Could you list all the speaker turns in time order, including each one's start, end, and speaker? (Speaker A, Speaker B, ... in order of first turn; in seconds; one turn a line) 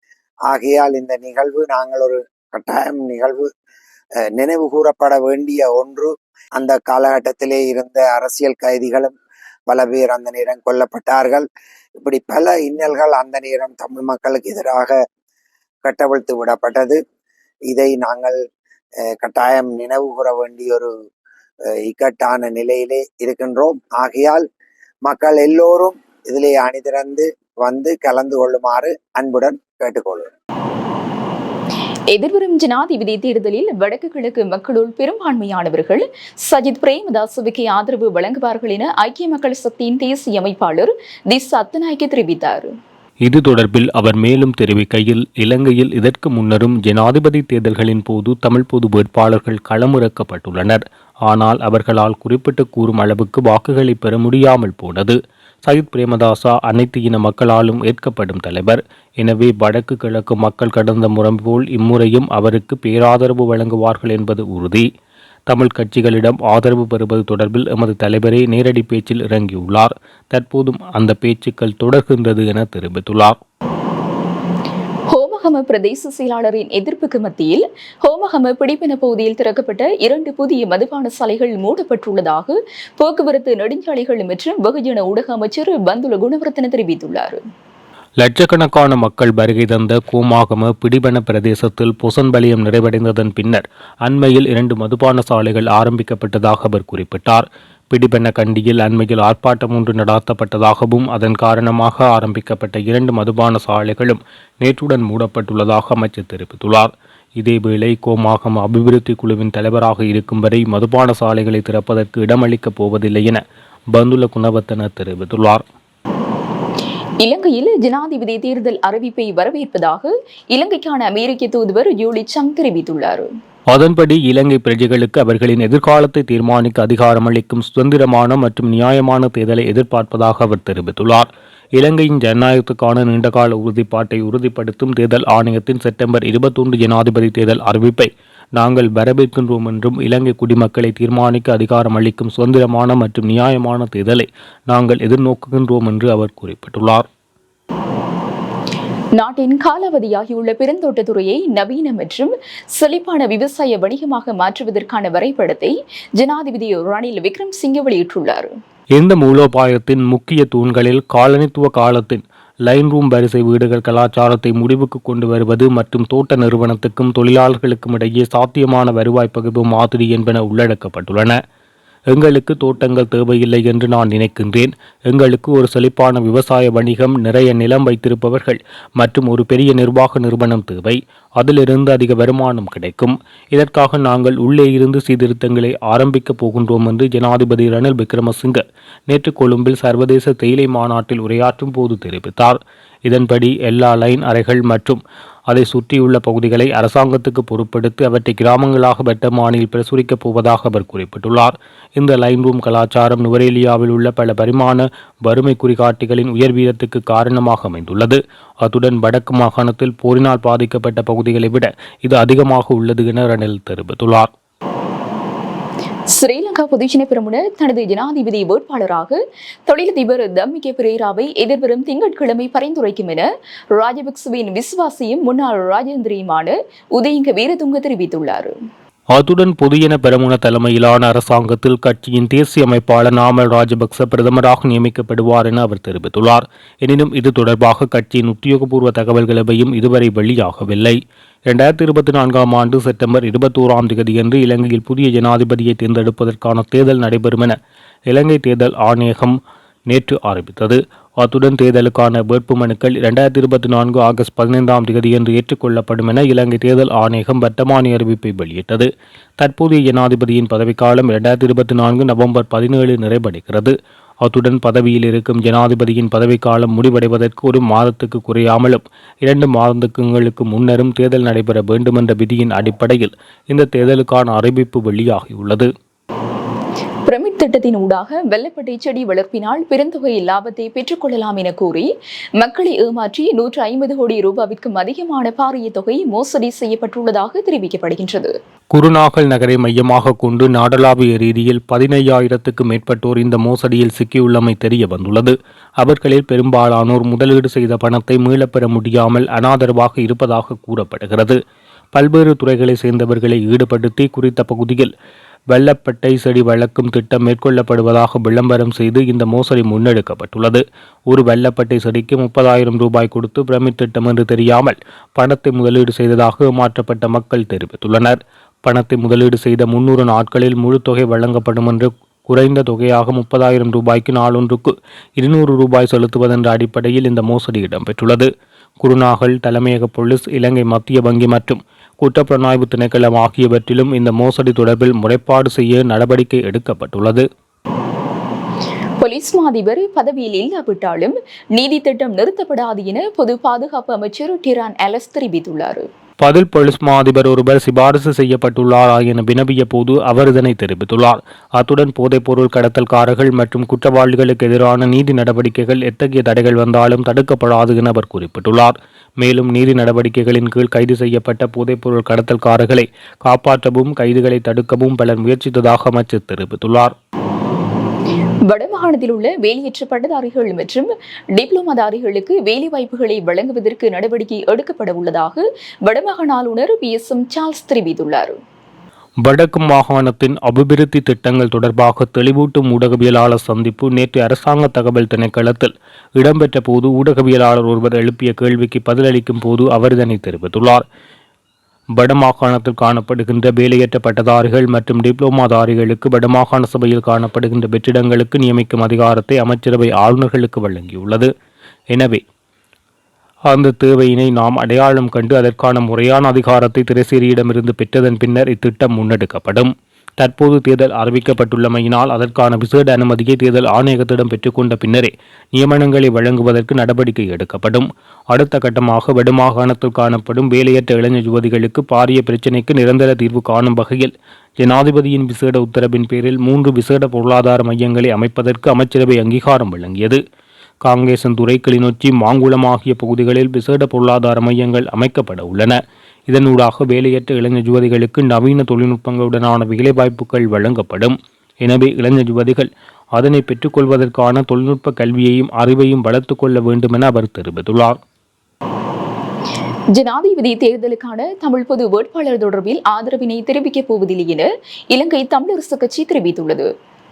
Speaker A: 0.5-3.5
Speaker A: 4.4-9.1
Speaker A: 9.7-11.4
Speaker A: 12.0-14.9
Speaker A: 15.8-17.0
Speaker A: 17.7-18.4
Speaker A: 19.1-20.9
Speaker A: 21.9-24.4
Speaker A: 25.1-30.3
Speaker B: 32.1-42.7
Speaker C: 43.2-64.8
Speaker C: 65.5-73.4
Speaker B: 75.1-87.4
Speaker C: 88.2-113.4
Speaker C: 113.9-115.6
Speaker B: 117.2-123.3
Speaker C: 123.7-147.1
Speaker B: 149.2-158.5
Speaker C: 158.9-171.4
Speaker C: 172.1-214.3
Speaker B: 216.2-228.5
Speaker C: 229.1-247.6
Speaker C: 248.1-249.4
Speaker C: 249.9-275.7
Speaker B: 277.1-281.9
Speaker B: 282.4-288.3
Speaker C: 288.7-301.4
Speaker C: 301.9-304.9
Speaker C: 305.5-328.3
Speaker C: 328.8-337.2
Speaker B: 339.0-345.9
Speaker C: 346.2-366.9
Speaker B: 368.5-378.4
Speaker C: 379.2-390.8
Speaker C: 392.0-401.3
Speaker C: 401.9-402.2
Speaker C: 403.5-430.2
Speaker C: 430.8-448.0
Speaker B: 449.9-456.7